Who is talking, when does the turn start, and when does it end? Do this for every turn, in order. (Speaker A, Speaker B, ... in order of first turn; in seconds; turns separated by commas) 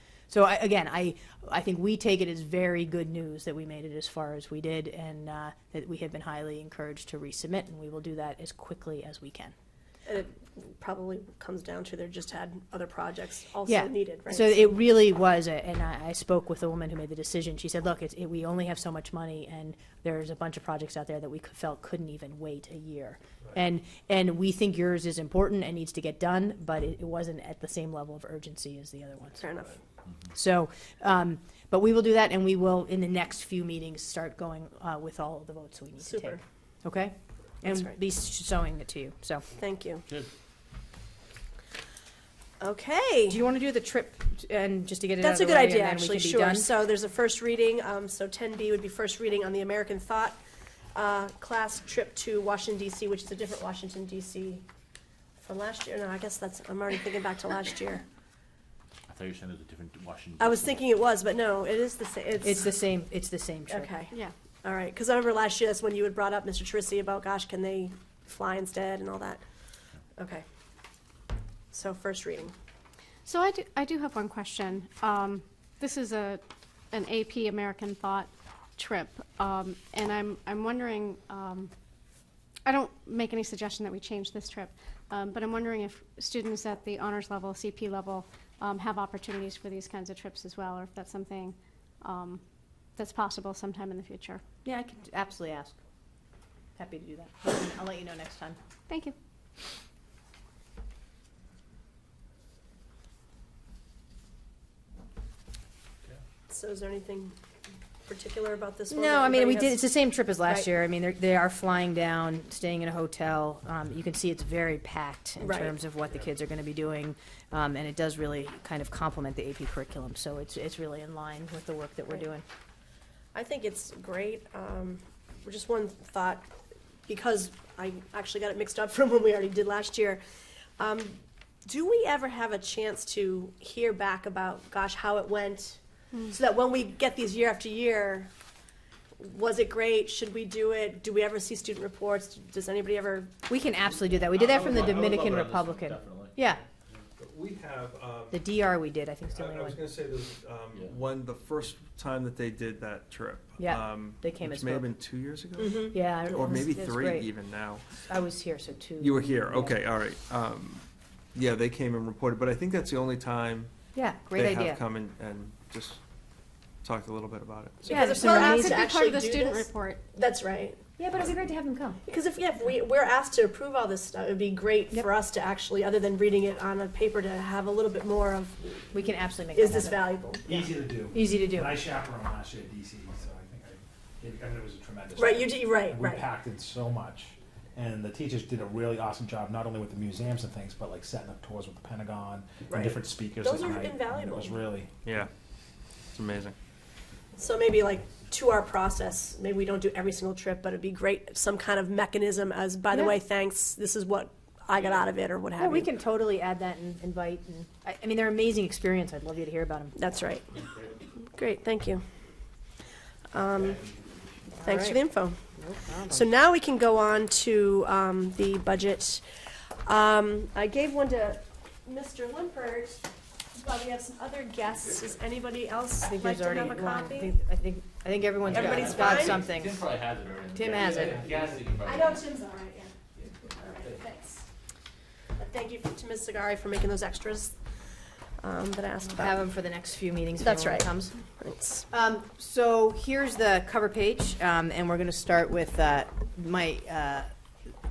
Speaker A: 0.3-9.5, Speaker B: 10.1-14.8, Speaker A: 13.7-29.5, Speaker B: 29.4-29.8, Speaker A: 30.3-39.4, Speaker B: 36.0-36.4, Speaker B: 37.6-37.9, Speaker B: 39.6-40.0, Speaker B: 42.6-43.4, Speaker A: 43.3-46.7, Speaker B: 45.2-50.4, Speaker B: 50.9-54.6, Speaker B: 55.4-58.0, Speaker C: 59.1-60.8, Speaker B: 60.4-62.8, Speaker A: 62.4-63.9, Speaker B: 63.7-69.4, Speaker B: 70.2-70.4, Speaker B: 71.7-72.5, Speaker D: 73.2-81.7, Speaker D: 82.6-92.4, Speaker D: 93.0-94.4, Speaker A: 94.6-95.8, Speaker A: 96.8-98.6, Speaker D: 98.9-99.1, Speaker B: 106.5-107.4, Speaker B: 108.1-109.8, Speaker A: 108.9-122.4, Speaker B: 115.4-115.7, Speaker B: 123.3-126.5, Speaker B: 127.0-130.2, Speaker B: 130.8-138.3, Speaker B: 139.2-143.3, Speaker A: 143.5-146.6, Speaker C: 144.1-146.5, Speaker E: 144.3-145.3, Speaker E: 147.2-148.4, Speaker A: 148.3-149.8, Speaker E: 149.3-158.1, Speaker C: 150.7-151.0, Speaker A: 153.6-154.9, Speaker B: 155.6-155.9, Speaker A: 155.8-157.3, Speaker A: 158.1-159.8, Speaker E: 159.0-163.7, Speaker A: 163.9-164.8, Speaker E: 164.3-166.0, Speaker E: 166.8-167.9, Speaker B: 167.8-170.8, Speaker A: 167.9-168.8, Speaker D: 168.1-170.0, Speaker A: 171.0-172.0, Speaker B: 172.0-178.8, Speaker A: 178.9-180.0, Speaker B: 179.5-180.7, Speaker F: 180.4-194.9, Speaker A: 181.1-181.7, Speaker B: 185.2-186.2, Speaker B: 192.7-194.6, Speaker E: 195.0-195.3, Speaker E: 196.1-196.6, Speaker B: 197.4-205.9, Speaker A: 202.9-203.2, Speaker A: 205.6-210.0, Speaker B: 210.0-210.6, Speaker B: 211.1-212.1, Speaker B: 213.3-213.8, Speaker A: 214.6-215.0, Speaker B: 214.6-215.4, Speaker A: 215.6-216.3, Speaker B: 216.1-219.2, Speaker B: 219.8-227.3, Speaker A: 226.0-229.8, Speaker C: 228.4-232.3, Speaker B: 228.5-229.4, Speaker A: 230.5-231.5, Speaker B: 231.5-234.4, Speaker C: 233.2-234.1, Speaker B: 235.4-237.6, Speaker B: 238.4-239.4, Speaker A: 239.2-241.2, Speaker B: 240.4-241.9, Speaker A: 241.9-247.3